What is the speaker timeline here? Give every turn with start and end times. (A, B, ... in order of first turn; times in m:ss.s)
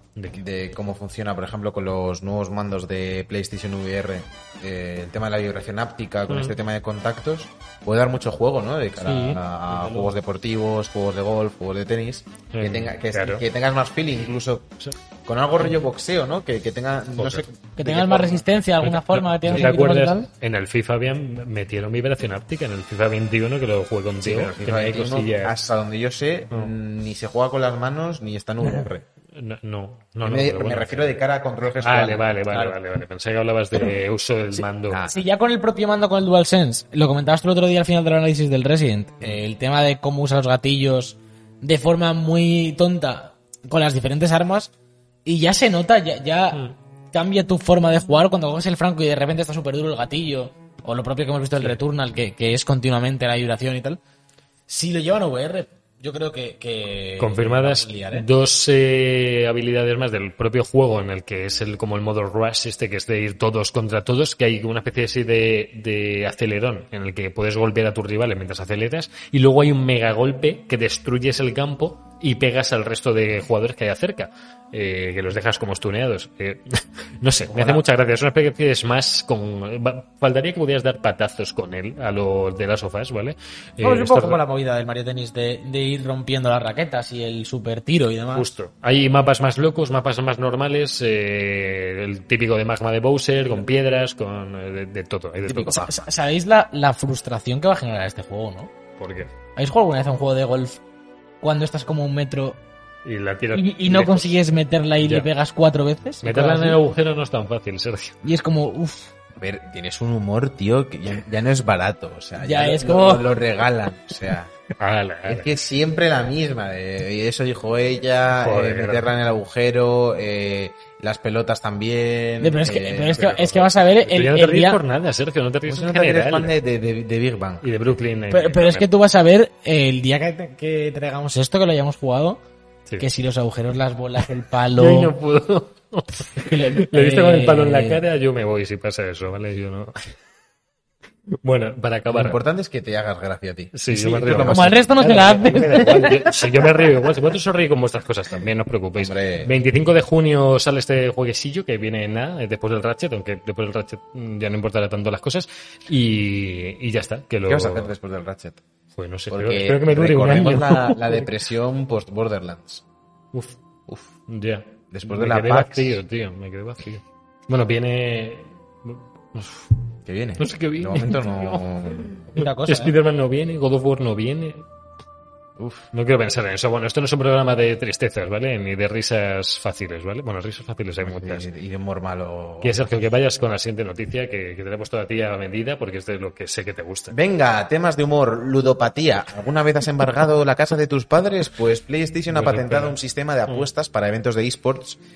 0:00.2-0:00.4 A
0:00.3-0:18.4 B
0:06.3-0:06.6 A
0:09.0-0:09.4 C
0:12.5-0:13.4 A
0:17.2-0:17.4 A
0:17.8-0:20.3 C
0:18.8-0:25.6 A
0:24.2-0:29.0 B
0:29.3-0:31.2 A
0:30.2-0:32.3 B
0:31.8-0:35.0 A
0:34.9-0:35.2 B
0:35.1-0:44.7 C
0:45.2-0:54.0 C
0:54.7-0:58.3 C
0:57.2-1:24.4 A
1:17.5-1:17.8 C
1:23.8-1:28.4 C
1:28.3-1:35.9 A
1:35.5-1:38.7 C
1:39.0-1:39.3 A
1:39.6-1:40.8 C
1:41.4-1:42.6 C
1:43.0-1:44.4 A
1:43.5-1:46.8 C
1:45.0-1:45.3 A
1:46.2-1:48.2 A
1:48.2-1:49.1 C
1:49.4-1:54.5 B
1:52.4-1:53.4 C
1:54.8-1:55.5 A
1:55.3-2:03.2 B
1:58.4-1:59.1 A
2:02.4-2:04.8 C
2:03.0-2:06.5 A
2:05.6-2:07.7 B
2:07.6-2:08.9 A
2:08.3-2:12.4 C
2:13.0-2:15.1 C
2:14.7-2:20.1 A
2:16.3-2:18.0 C
2:21.4-2:22.4 A
2:22.1-2:26.1 B
2:23.7-2:37.9 A
2:24.4-2:26.3 C
2:29.0-2:29.5 B
2:37.4-2:38.6 B
2:39.0-2:41.3 A
2:39.3-2:42.8 B
2:43.3-2:43.6 A
2:44.2-2:49.8 A
2:44.9-2:46.0 B
2:50.0-2:52.2 B
2:50.4-2:54.6 A
2:52.3-2:52.9 C
2:55.6-2:55.9 B
2:55.9-3:01.5 A
3:01.0-3:02.9 B
3:02.6-3:07.1 A
3:07.1-3:15.0 B
3:12.3-3:13.0 A